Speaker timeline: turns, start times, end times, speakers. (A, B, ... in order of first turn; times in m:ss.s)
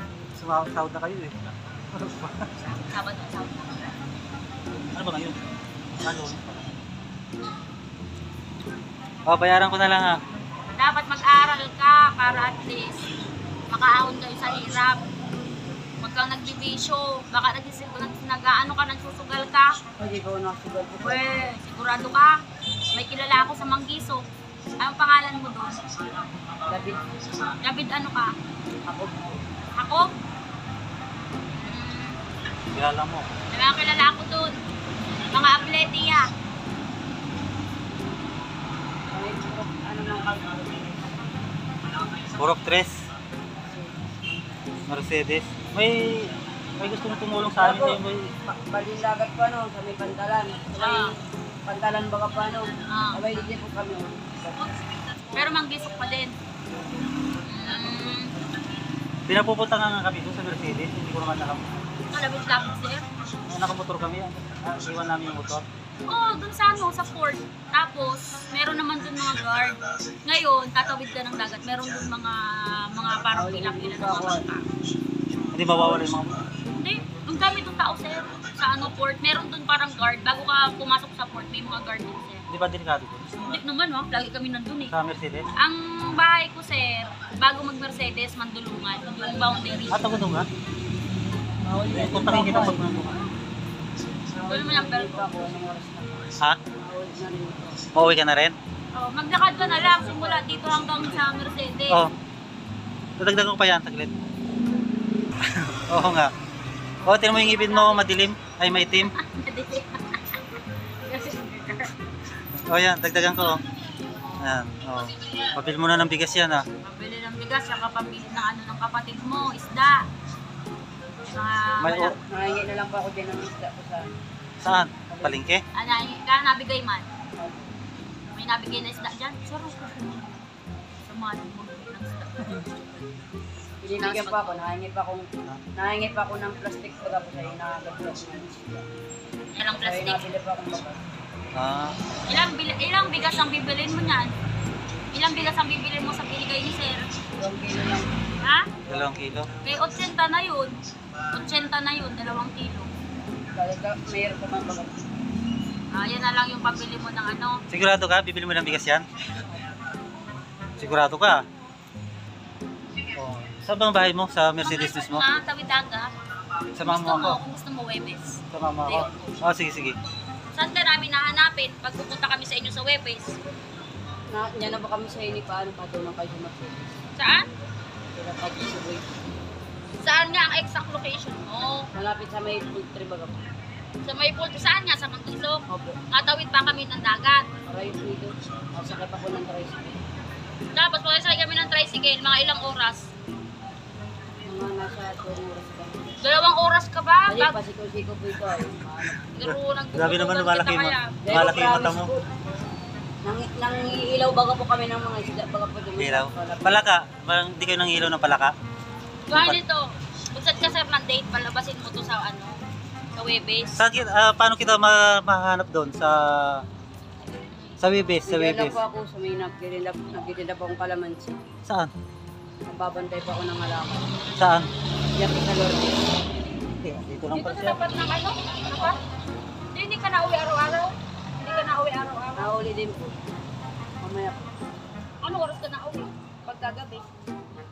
0:00.4-0:02.5 A
0:02.6-0:04.0 B
0:04.9-0:05.4 A
0:06.0-0:06.8 A
0:09.3-0:10.2 A
0:10.8-0:13.0 B
0:13.7-0:15.0 B
0:16.0-0:19.8 B
0:20.0-0:21.4 C
0:21.0-0:22.4 B
0:22.9-0:24.2 B
0:24.8-0:25.8 B
0:26.7-0:27.1 C
0:27.5-0:28.3 B
0:28.9-0:29.4 C
0:29.8-0:30.1 B
0:31.5-0:32.2 B
0:32.7-0:33.3 A
0:33.5-0:34.5 B
0:35.3-0:36.3 B
0:39.1-0:41.0 C
0:42.4-0:42.9 A
0:43.7-0:44.2 C
0:44.9-0:48.3 A
0:47.5-0:54.7 C
0:50.8-0:51.2 B
0:52.9-0:53.2 B
0:55.3-0:56.4 B
0:57.4-0:58.3 B
0:59.3-1:01.8 A
1:02.1-1:03.0 B
1:03.5-1:05.6 A
1:06.1-1:14.7 B
1:13.3-1:14.5 C
1:15.5-1:16.5 A
1:15.7-1:16.1 C
1:16.7-1:22.4 B
1:22.5-1:23.6 A
1:23.4-1:25.0 B
1:24.9-1:25.5 A
1:25.6-1:30.2 B
1:29.9-1:30.5 A
1:31.7-1:32.9 C
1:31.9-1:33.1 A
1:32.1-1:32.5 B
1:34.3-1:38.2 C
1:34.5-1:35.3 B
1:37.9-1:38.6 A
1:38.9-1:42.0 B
1:39.6-1:41.2 C
1:43.2-1:44.1 A
1:45.6-1:46.3 A
1:47.0-1:49.1 A
1:47.1-1:48.2 B
1:49.0-1:50.4 B
1:51.0-1:51.9 B
1:52.7-1:53.6 A
1:54.4-1:56.6 A
1:56.8-2:00.0 B
2:01.3-2:02.1 B
2:01.8-2:02.1 A
2:02.1-2:04.2 C
2:04.6-2:05.6 A
2:05.1-2:05.4 C
2:05.7-2:07.1 B
2:07.4-2:07.6 C
2:08.3-2:10.4 B
2:11.0-2:12.7 B
2:13.8-2:18.9 C
2:14.0-2:14.6 B
2:19.6-2:20.2 B
2:19.7-2:21.0 C
2:21.5-2:22.0 A
2:22.3-2:24.3 B
2:25.1-2:27.0 B
2:27.4-2:28.2 C
2:28.4-2:28.7 B
2:28.9-2:29.5 A
2:29.6-2:30.8 B
2:31.3-2:32.9 B
2:33.6-2:35.1 C
2:35.9-2:37.6 B
2:37.7-2:39.1 A
2:40.8-2:41.4 A
2:43.2-2:45.2 A
2:44.6-2:46.1 B
2:46.8-2:47.4 A
2:46.8-2:49.4 B
2:48.5-2:50.0 A
2:50.5-2:53.4 B
2:54.3-2:57.0 C
2:57.2-2:57.5 B
2:58.1-2:59.1 C
3:00.0-3:01.9 B
3:02.0-3:03.5 C
3:04.0-3:07.5 B
3:05.7-3:06.0 C
3:07.7-3:10.0 C
3:10.7-3:13.1 B
3:14.4-3:16.2 C
3:16.2-3:17.6 B
3:17.3-3:19.2 C
3:19.3-3:21.8 B
3:19.4-3:22.1 A
3:21.2-3:22.3 C
3:23.2-3:26.9 C
3:26.0-3:28.5 A
3:29.3-3:32.6 B
3:29.3-3:29.6 A
3:33.1-3:33.9 B
3:33.8-3:36.6 A
3:37.8-3:38.8 A
3:38.3-3:41.4 C
3:41.7-3:41.9 A
3:42.7-3:44.1 C
3:44.4-3:44.7 A
3:45.1-3:46.0 C
3:46.8-3:47.8 A
3:47.3-3:49.0 B
3:49.7-3:52.5 B
3:52.4-3:53.2 C
3:54.0-3:54.5 C
3:55.2-3:57.1 B